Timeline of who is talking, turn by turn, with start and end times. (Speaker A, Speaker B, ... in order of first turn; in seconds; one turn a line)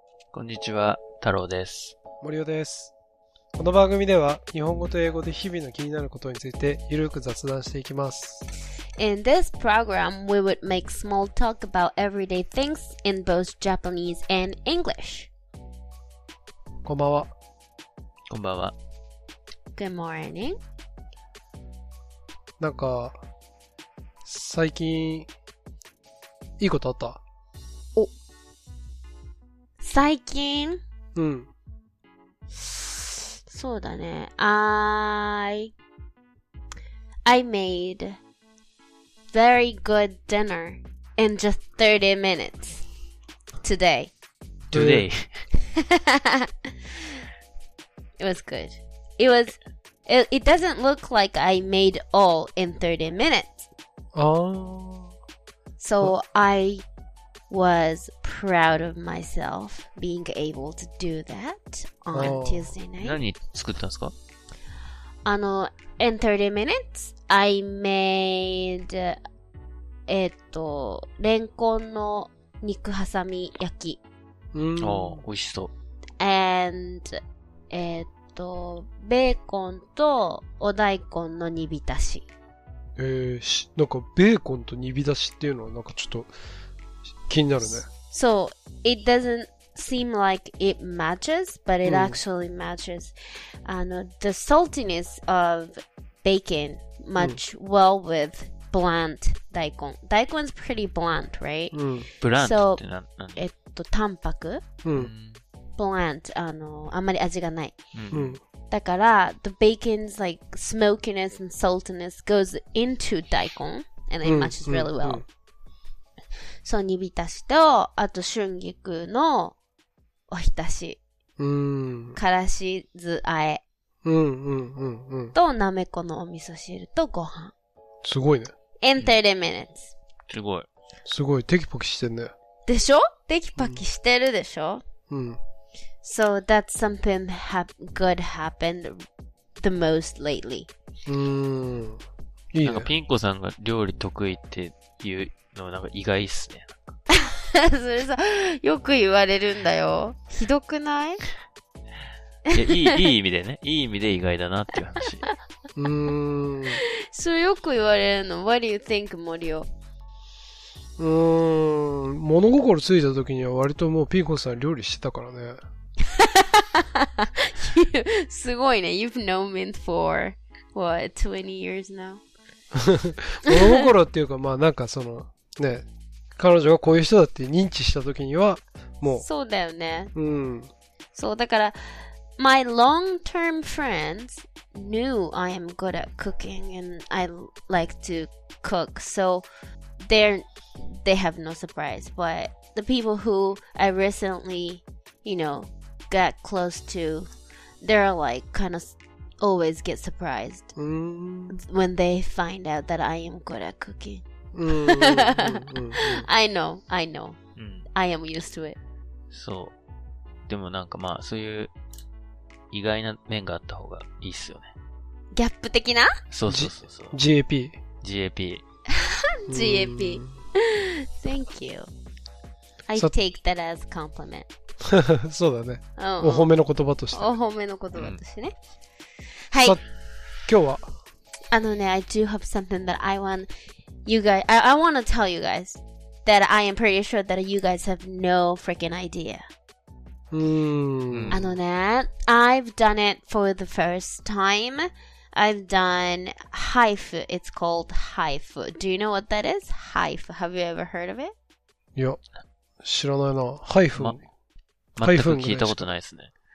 Speaker A: 0.3-1.9
Speaker B: 2.2-2.9
Speaker B: 3.6-8.4
Speaker C: 9.0-15.3
Speaker B: 16.8-17.3
Speaker A: 18.3-18.7
Speaker C: 19.8-20.6
Speaker B: 22.6-23.2
Speaker B: 24.2-25.3
Speaker B: 26.6-27.2
Speaker C: 29.8-30.8
Speaker B: 31.1-31.5
Speaker C: 32.6-35.7
Speaker C: 37.3-38.2
Speaker C: 39.3-42.8
Speaker C: 43.6-44.1
Speaker A: 44.7-45.5
Speaker B: 44.7-45.0
Speaker C: 45.6-47.2
Speaker C: 48.2-53.7
Speaker B: 54.1-55.1
Speaker C: 55.8-56.8
Speaker C: 57.5-63.2
Speaker B: 62.1-62.7
Speaker A: 63.0-64.1
Speaker C: 65.2-69.2
Speaker C: 70.1-74.0
Speaker B: 74.5-75.2
Speaker A: 74.8-75.7
Speaker C: 76.2-77.2
Speaker C: 77.7-82.2
Speaker B: 83.0-86.3
Speaker B: 87.2-87.9
Speaker C: 88.0-93.1
Speaker B: 91.8-92.2
Speaker C: 93.6-101.8
Speaker B: 101.7-102.1
Speaker A: 102.2-103.4
Speaker C: 102.3-102.8
Speaker C: 103.3-104.6
Speaker B: 104.8-105.1
Speaker A: 104.9-105.4
Speaker C: 105.8-107.8
Speaker A: 107.9-108.3
Speaker B: 108.1-108.4
Speaker C: 108.7-115.2
Speaker B: 114.2-115.2
Speaker C: 116.6-119.5
Speaker C: 120.3-121.0
Speaker B: 121.4-122.2
Speaker C: 122.2-123.6
Speaker B: 124.0-125.3
Speaker C: 125.3-127.5
Speaker B: 128.0-128.5
Speaker C: 128.8-129.9
Speaker A: 130.3-130.7
Speaker B: 131.1-132.3
Speaker C: 132.7-134.8
Speaker B: 135.1-135.4
Speaker C: 136.0-139.0
Speaker C: 139.6-140.7
Speaker B: 141.1-142.0
Speaker B: 142.5-142.9
Speaker A: 142.6-146.9
Speaker C: 147.1-151.2
Speaker C: 152.5-153.0
Speaker A: 152.5-155.3
Speaker B: 155.8-156.8
Speaker C: 156.7-159.7
Speaker B: 161.0-165.6
Speaker C: 166.0-172.2
Speaker B: 172.7-179.2
Speaker C: 173.5-173.8
Speaker C: 179.1-180.1
Speaker B: 180.1-180.7
Speaker C: 181.1-189.4
Speaker C: 190.0-197.3
Speaker C: 197.8-200.7
Speaker B: 200.8-201.6
Speaker C: 201.5-207.4
Speaker B: 204.5-206.3
Speaker A: 207.6-207.8
Speaker C: 207.9-208.8
Speaker A: 209.3-209.7
Speaker A: 210.5-211.7
Speaker A: 212.7-214.7
Speaker C: 215.3-216.2
Speaker A: 216.3-217.2
Speaker B: 216.5-217.8
Speaker A: 218.0-218.6
Speaker C: 218.9-221.9
Speaker B: 219.5-220.3
Speaker C: 222.9-224.5
Speaker B: 224.8-227.3
Speaker C: 226.0-226.5
Speaker C: 227.1-228.5
Speaker C: 229.5-229.8
Speaker B: 230.4-230.9
Speaker C: 231.5-233.5
Speaker C: 234.1-239.4
Speaker B: 240.3-241.4
Speaker A: 241.1-241.4
Speaker C: 241.3-251.3
Speaker B: 252.8-254.2
Speaker A: 254.9-256.3
Speaker B: 255.0-255.8